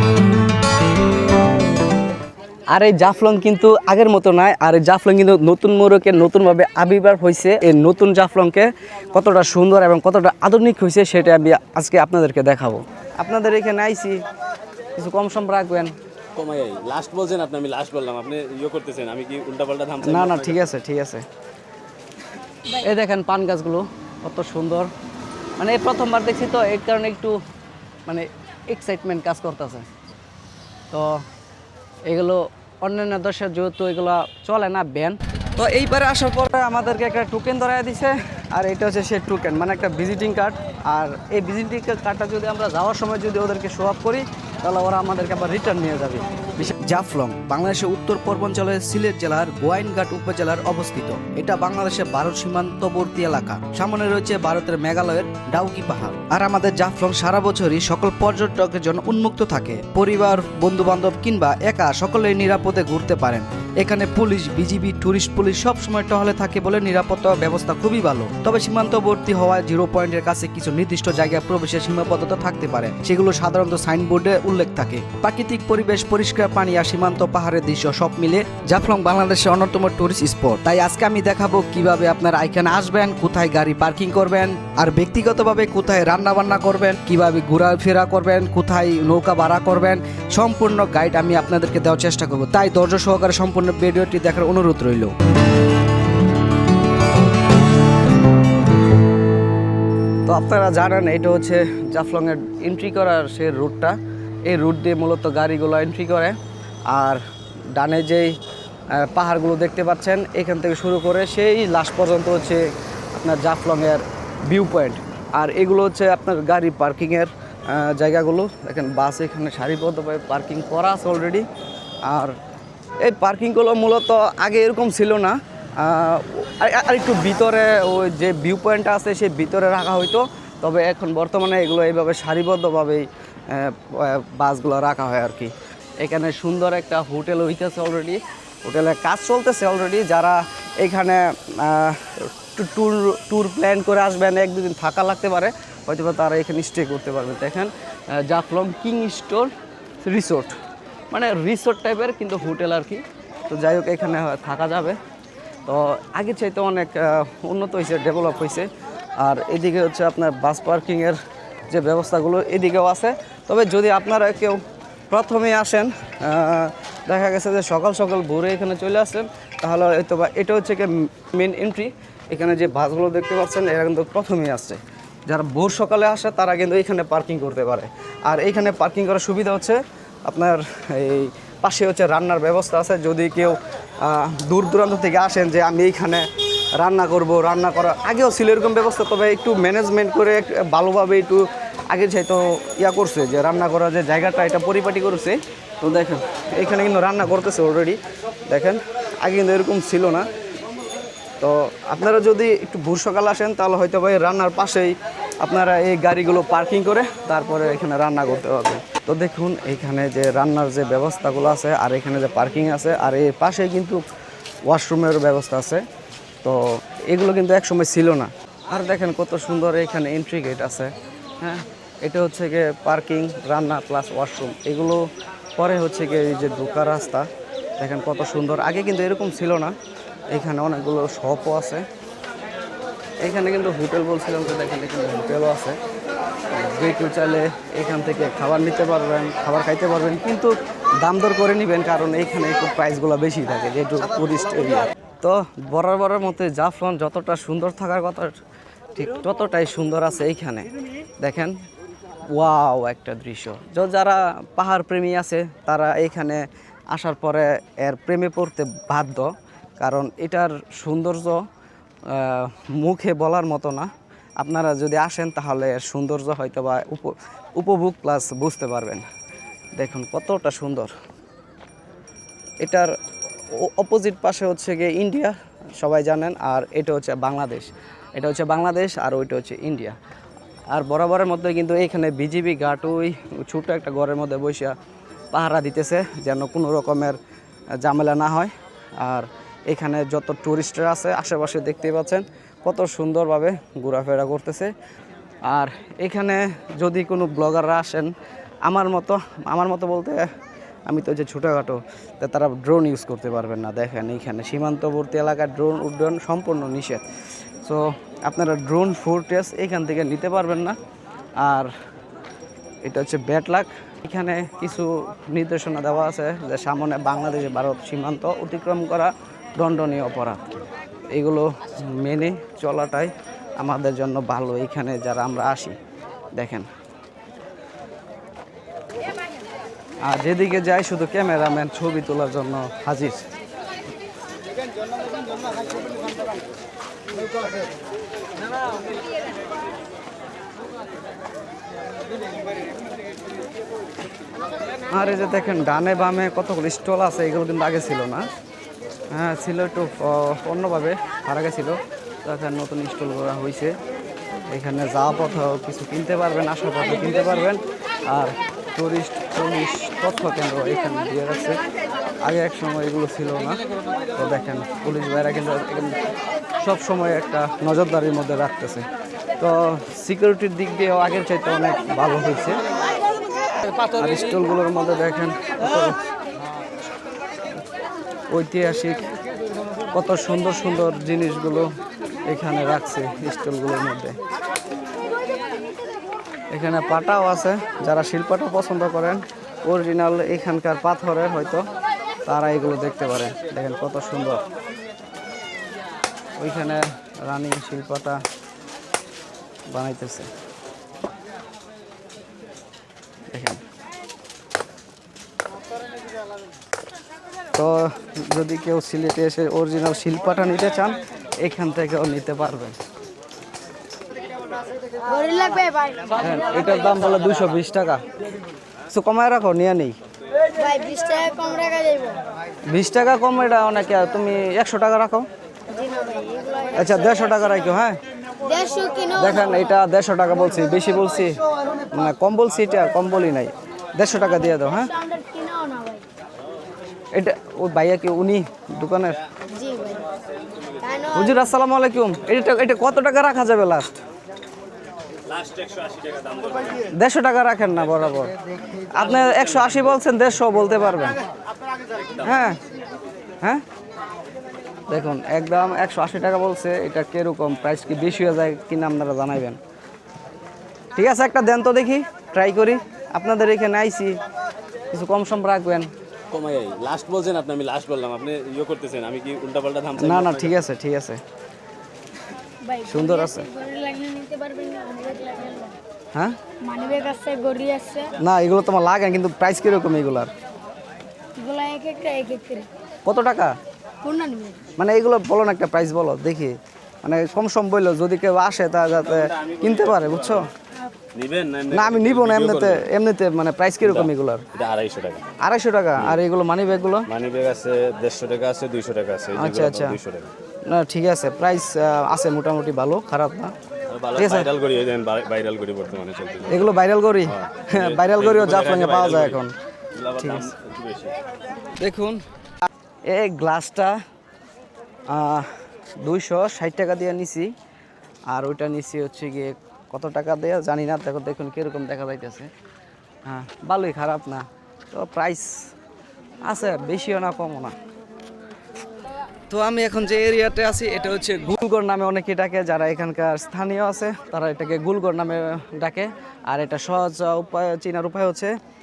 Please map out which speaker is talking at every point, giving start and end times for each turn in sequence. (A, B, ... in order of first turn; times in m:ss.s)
0:02.7-0:14.2 A
0:15.0-0:16.0 A
0:16.4-0:20.6 B
0:20.0-0:21.3 A
0:22.7-0:24.9 A
0:25.6-0:27.4 A
0:28.1-0:29.9 A
0:30.9-0:31.2 A
0:32.1-1:35.1 A
1:40.3-1:46.4 A
1:46.9-1:48.4 A
1:48.9-2:01.5 A
2:02.0-2:02.4 A
2:03.0-2:29.5 A
2:30.0-2:30.6 A
2:31.1-2:35.0 A
2:35.7-2:38.7 A
2:39.2-2:41.2 A
2:41.7-3:20.3 A
3:21.4-3:34.0 A
3:34.7-3:35.8 A
3:36.4-3:49.8 A
3:50.3-3:51.9 A
3:53.2-3:55.8 A
3:56.5-4:08.4 A
4:09.0-4:10.7 A
4:11.2-4:11.6 A
4:12.3-4:21.5 A
4:22.1-4:29.0 A
4:29.8-4:30.9 A
4:32.6-4:33.0 A
4:33.5-4:40.0 A
4:40.7-4:44.8 A
4:45.3-4:47.2 A
4:47.8-4:54.7 A
4:55.5-4:58.1 A
4:58.6-5:00.3 A
5:00.9-5:07.1 A
5:07.6-5:10.8 A
5:11.4-5:11.7 A
5:12.8-5:25.8 A
5:26.3-5:26.7 A
5:30.0-5:33.2 A
5:44.9-5:48.3 A
5:49.1-5:53.8 A
5:54.5-6:01.6 A
6:02.2-6:03.6 A
6:04.2-6:06.1 A
6:06.6-6:08.9 A
6:09.4-6:12.6 A
6:13.9-6:16.0 A
6:18.3-6:19.0 A
6:19.9-6:21.7 A
6:22.3-6:24.2 A
6:26.5-6:31.7 A
6:32.3-6:34.4 A
6:36.4-6:38.2 A
6:39.7-6:40.3 A
6:43.3-6:43.6 A
6:47.6-6:52.8 A
6:54.9-6:56.2 C
6:56.2-6:58.0 A
6:58.9-7:00.0 A
7:00.5-7:02.2 C
7:02.7-7:05.3 A
7:05.7-7:06.8 C
7:06.7-7:08.0 A
7:08.4-7:09.4 C
7:09.1-7:15.0 A
7:15.0-7:16.1 C
7:17.1-7:19.2 A
7:19.5-7:20.1 C
7:20.8-7:21.3 C
7:21.1-7:24.0 A
7:25.3-7:26.8 B
7:26.9-7:28.3 A
7:28.9-7:31.2 A
7:32.2-7:32.6 A
7:34.9-7:39.6 A
7:41.0-7:44.2 A
7:44.9-7:45.9 A
7:46.3-7:50.6 B
7:50.0-7:51.2 A
7:52.6-7:55.8 C
7:52.8-7:53.5 A
7:56.6-7:58.2 C
7:58.2-8:00.3 A
8:01.4-8:02.7 C
8:03.0-8:03.6 A
8:04.0-8:04.7 C
8:04.8-8:10.5 A
8:09.1-8:10.5 B
8:11.1-8:12.9 B
8:11.7-8:14.5 A
8:13.8-8:15.4 B
8:15.4-8:17.1 A
8:17.1-8:20.3 B
8:19.4-8:20.0 A
8:20.6-8:23.5 A
8:23.9-8:26.7 B
8:24.1-8:24.5 A
8:26.5-8:29.5 A
8:27.3-8:31.2 B
8:30.2-8:30.5 A
8:31.8-8:32.2 A
8:33.1-8:34.0 A
8:35.1-8:35.5 A
8:36.0-8:37.5 A
8:38.3-8:42.5 A
8:43.2-8:45.7 A
8:46.4-8:47.8 A
8:49.5-8:58.6 A